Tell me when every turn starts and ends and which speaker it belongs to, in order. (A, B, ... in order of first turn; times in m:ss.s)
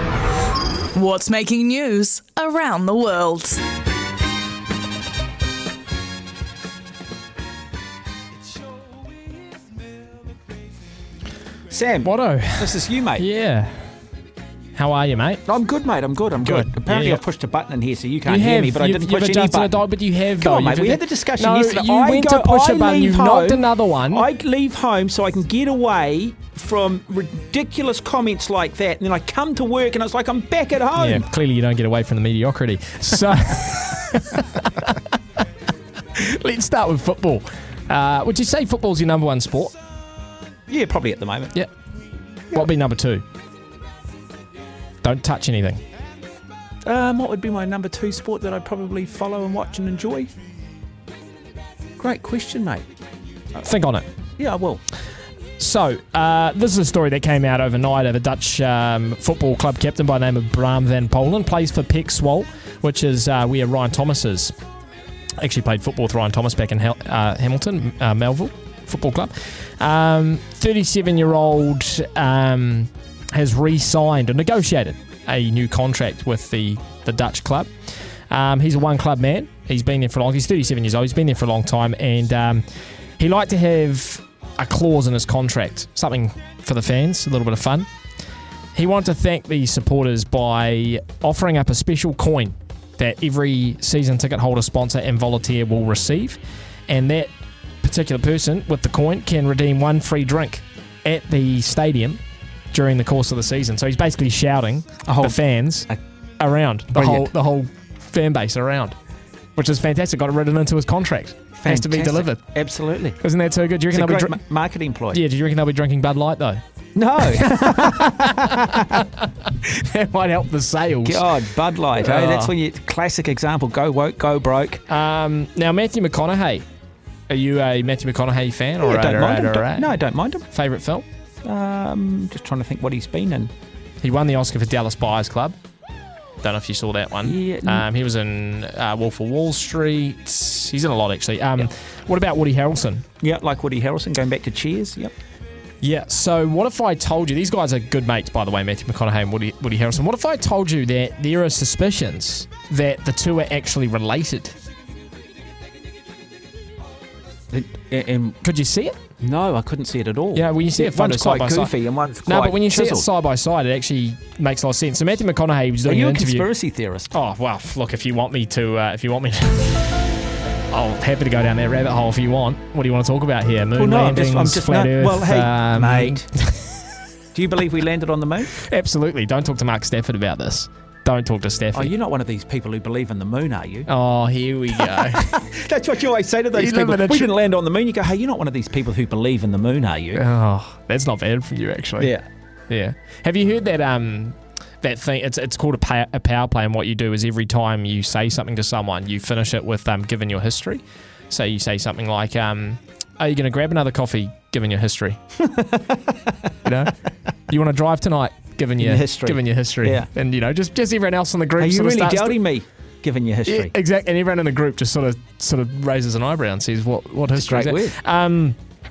0:00.9-0:03.6 A
0:11.7-0:13.2 B
0:12.0-0:13.9 C
0:14.7-0:15.4 C
0:15.4-0:19.8 B
0:16.4-0:17.2 C
0:18.2-0:24.2 C
0:20.4-0:31.2 B
0:31.0-0:35.0 C
0:36.2-0:39.7 C
0:40.7-0:41.5 B
0:42.5-0:43.2 C
0:45.0-0:45.8 C
0:46.8-0:50.3 B
0:52.0-0:52.8 B
0:53.6-0:54.1 C
0:54.4-0:54.8 B
0:55.6-1:04.5 C
1:05.4-1:17.7 C
1:18.3-1:22.6 C
1:23.2-1:27.9 C
1:28.7-1:37.3 C
1:37.8-1:42.2 C
1:42.7-1:45.9 C
1:45.0-1:45.4 B
1:46.4-1:48.9 C
1:46.9-1:47.3 B
1:49.6-1:52.4 C
1:51.6-1:53.2 B
1:53.2-1:54.4 C
1:53.9-1:55.2 B
1:55.1-1:56.6 C
1:57.0-1:59.0 B
1:57.2-2:01.3 C
2:01.0-2:04.8 B
2:01.9-2:02.5 C
2:04.9-2:06.6 C
2:07.3-2:10.0 C
2:08.8-2:10.4 B
2:10.5-2:11.0 C
2:11.4-2:13.5 B
2:14.0-2:15.6 C
2:16.4-2:23.0 C
2:17.2-2:17.8 B
2:23.2-2:25.1 B
2:25.8-2:34.5 C
2:37.5-2:38.4 B
2:38.4-2:39.0 C
2:39.2-2:43.1 B
2:40.3-2:41.7 C
2:42.2-2:46.5 C
2:45.8-2:47.1 B
2:47.1-2:50.0 C
2:50.7-2:56.7 C
2:53.8-2:56.3 B
2:57.3-2:58.5 B
2:58.6-3:01.9 C
3:01.7-3:03.9 B
3:03.9-3:05.3 C
3:04.8-3:10.2 B
3:06.5-3:07.3 C
3:10.1-3:12.1 C
3:12.0-3:12.2 B
3:12.7-3:25.2 C
3:25.4-3:26.3 B
3:26.6-3:26.9 C
3:27.5-3:32.4 C
3:28.8-3:30.1 B
3:31.6-3:33.7 B
3:33.5-3:38.6 C
3:37.3-3:38.0 B